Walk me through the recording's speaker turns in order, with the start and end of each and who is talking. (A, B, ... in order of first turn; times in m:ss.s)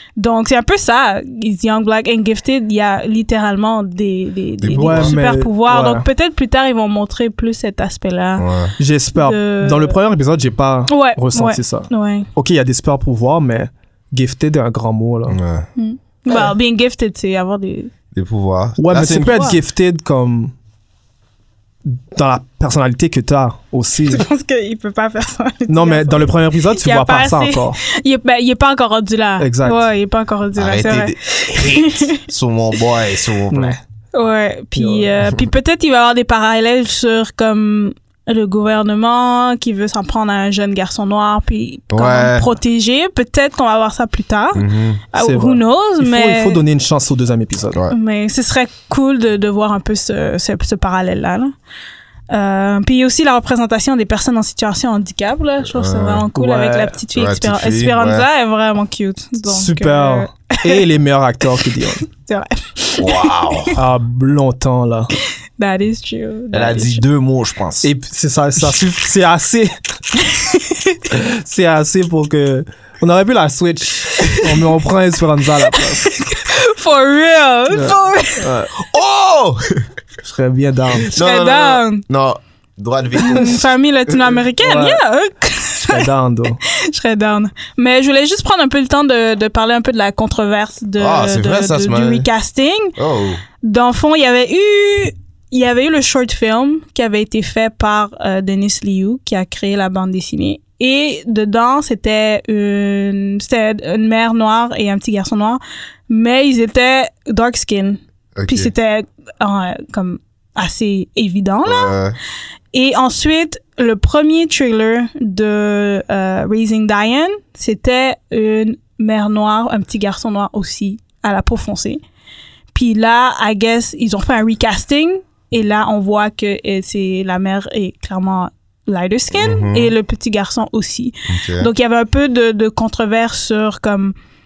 0:00.2-0:08.5 A
0:04.6-0:05.1 B
0:04.8-0:06.0 C
0:08.4-0:08.7 B
0:08.8-0:15.4 C
0:09.1-0:10.0 A
0:10.9-0:12.3 A
0:15.3-0:15.7 B
0:15.8-0:17.9 A
0:18.1-0:19.4 B
0:18.8-0:20.5 C
0:19.2-0:19.6 A
0:21.8-0:24.2 C
0:24.1-0:32.2 A
0:25.7-0:27.8 C
0:29.4-0:29.8 C
0:30.6-0:33.8 B
0:33.5-0:33.8 C
0:34.1-0:46.6 A
0:34.8-0:35.1 C
0:41.9-0:42.5 B
0:44.5-0:45.0 B
0:45.2-0:47.8 C
0:47.9-0:51.5 A
0:52.3-1:00.8 A
0:55.6-0:56.3 B
0:56.4-0:57.0 C
0:57.1-0:58.3 B
0:59.5-1:02.0 C
1:02.1-1:03.8 A
1:03.0-1:03.8 B
1:03.8-1:05.1 C
1:05.6-1:07.0 A
1:06.5-1:07.9 B
1:07.8-1:09.8 C
1:10.3-1:11.0 A
1:11.1-1:16.1 C
1:14.2-1:14.6 A
1:15.7-1:18.5 A
1:17.7-1:18.7 C
1:18.8-1:19.9 B
1:20.2-1:21.1 C
1:21.0-1:24.4 B
1:21.1-1:22.0 A
1:23.2-1:26.1 A
1:24.6-1:25.0 C
1:25.8-1:26.6 C
1:26.6-1:33.0 A
1:31.0-1:32.3 B
1:33.0-1:33.4 B
1:33.6-1:51.9 A
1:48.4-1:48.7 B
1:51.6-1:52.2 B
1:52.7-2:02.0 A
2:02.7-2:14.2 A
2:09.3-2:09.9 B
2:11.3-2:11.7 B